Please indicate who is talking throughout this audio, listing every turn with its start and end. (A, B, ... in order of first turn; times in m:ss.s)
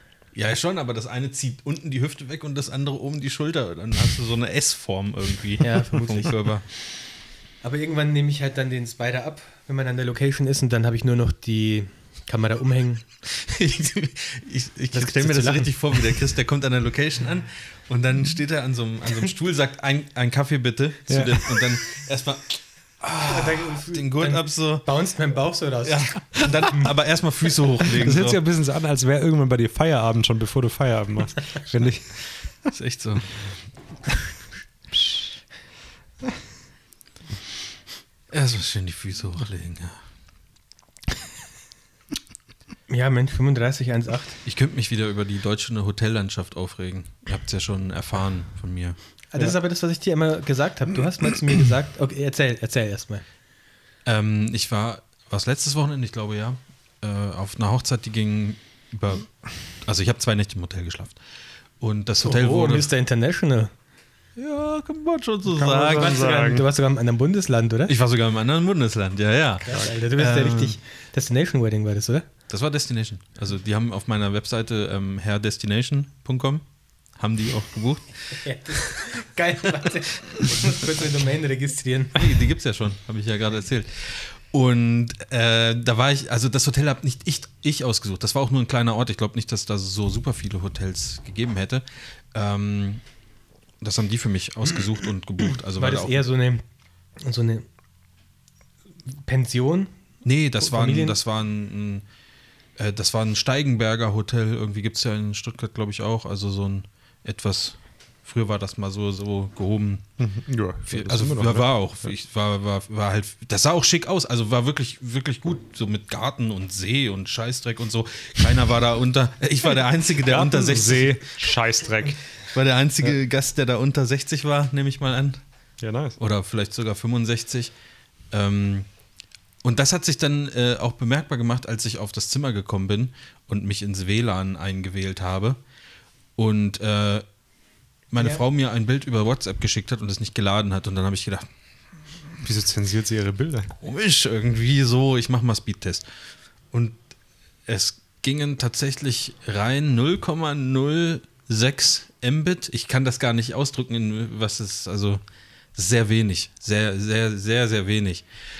0:00.3-0:06.6 A
0:05.6-0:06.3 B
0:07.6-0:13.0 B
0:13.2-0:24.9 A
0:14.9-0:15.7 B
0:21.1-0:21.6 C
0:23.2-0:26.8 B
0:25.8-0:28.4 A
0:27.9-0:32.2 C
0:32.7-0:33.3 A
0:38.3-0:40.0 A
0:42.9-0:44.4 B
0:44.4-0:49.0 A
0:49.3-0:53.2 B
0:54.0-0:59.3 A
0:59.8-1:01.2 A
1:01.8-1:02.9 A
1:02.2-1:03.7 B
1:04.4-1:06.2 A
1:05.5-1:06.7 C
1:05.8-1:07.9 B
1:07.9-1:10.8 A
1:09.6-1:12.2 B
1:12.5-1:16.6 A
1:17.2-1:19.0 A
1:18.4-1:22.2 B
1:22.1-1:33.0 A
1:33.8-1:36.2 A
1:35.8-1:36.6 B
1:37.2-1:37.6 B
1:39.2-1:39.9 B
1:40.2-1:42.0 A
1:40.6-1:41.2 B
1:42.8-1:50.0 A
1:50.2-1:52.1 C
1:50.9-2:01.2 A
2:00.2-2:02.2 C
2:02.5-2:05.4 A
2:05.8-2:06.2 C
2:06.2-2:07.7 A
2:08.3-2:08.9 A
2:09.6-2:15.6 A
2:16.4-2:17.2 A
2:18.1-2:21.4 A
2:22.4-2:23.7 C
2:23.8-2:26.0 A
2:26.7-2:27.0 A
2:27.7-2:35.2 A
2:35.7-2:38.2 A